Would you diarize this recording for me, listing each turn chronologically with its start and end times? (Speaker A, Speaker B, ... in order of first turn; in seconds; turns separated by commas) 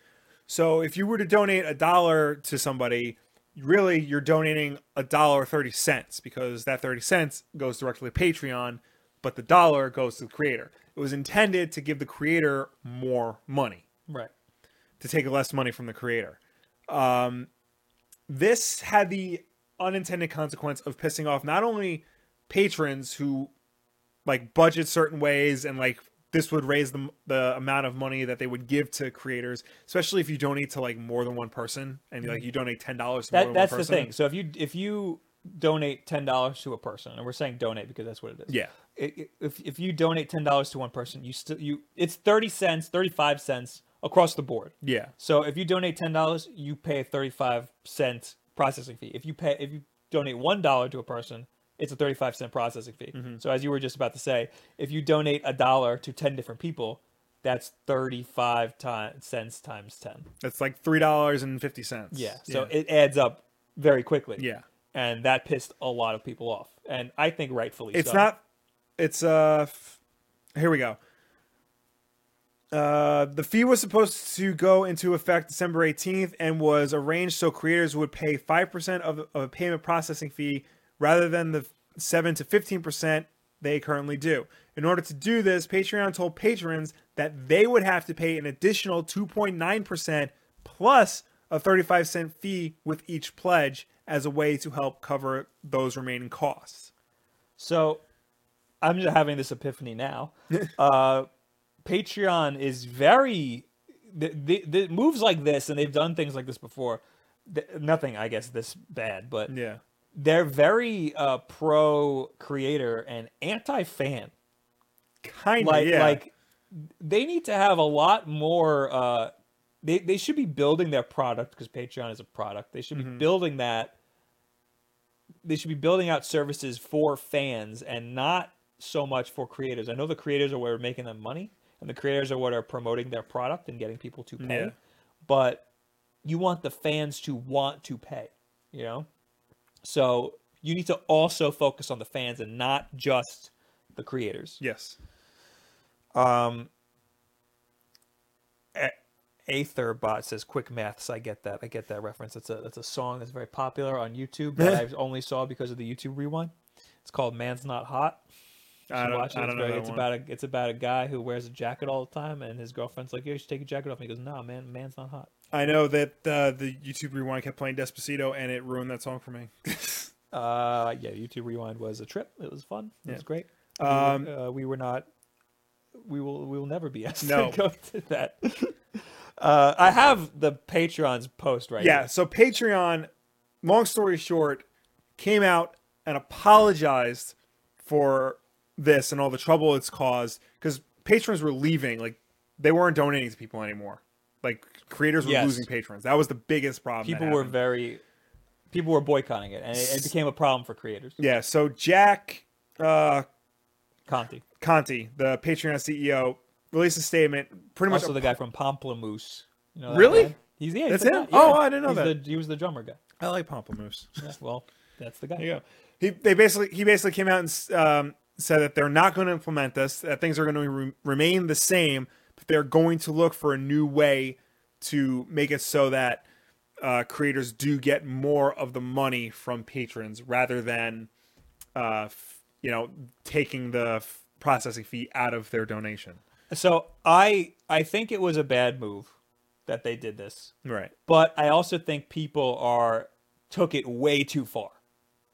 Speaker A: 0.5-13.8, Speaker A: 15.0-17.5, Speaker A: 18.3-23.5, Speaker A: 24.2-34.1, Speaker B: 33.3-60.3, Speaker A: 38.5-38.7, Speaker A: 44.8-45.1, Speaker A: 53.1-53.4, Speaker A: 60.4-62.7, Speaker B: 62.1-68.3, Speaker A: 64.4-64.6, Speaker A: 67.9-68.4, Speaker A: 69.0-70.0, Speaker A: 70.5-71.0, Speaker A: 72.7-96.9, Speaker B: 97.6-98.0, Speaker B: 98.8-101.3, Speaker B: 101.8-109.5, Speaker A: 109.5-109.8, Speaker B: 110.1-114.3, Speaker A: 115.2-116.2, Speaker B: 115.6-119.3, Speaker B: 119.8-123.9, Speaker A: 122.9-123.2, Speaker B: 125.4-134.7, Speaker A: 134.4-134.7, Speaker B: 135.2-135.7, Speaker B: 136.2-139.1, Speaker B: 139.8-144.6, Speaker A: 144.6-145.0, Speaker B: 146.1-146.7, Speaker B: 149.5-156.5, Speaker B: 157.0-158.2, Speaker A: 158.9-160.1, Speaker B: 158.9-165.3, Speaker A: 165.5-170.1, Speaker B: 170.3-175.1, Speaker A: 173.8-174.3, Speaker B: 176.0-178.8, Speaker A: 177.2-177.6, Speaker B: 179.4-182.1, Speaker A: 181.8-183.1, Speaker A: 183.6-184.6, Speaker A: 185.2-197.5, Speaker B: 195.2-195.7, Speaker B: 197.0-198.0, Speaker B: 198.7-201.2, Speaker A: 199.7-200.1, Speaker A: 201.2-203.2, Speaker B: 204.1-204.4, Speaker A: 204.6-208.3, Speaker B: 207.9-213.0, Speaker A: 209.9-210.3, Speaker A: 210.9-212.1, Speaker A: 213.2-214.3, Speaker B: 214.2-215.5, Speaker A: 215.4-226.2, Speaker A: 226.8-231.1, Speaker A: 231.7-236.2, Speaker B: 236.5-239.1, Speaker B: 239.7-240.5, Speaker A: 240.6-240.9, Speaker B: 241.1-244.8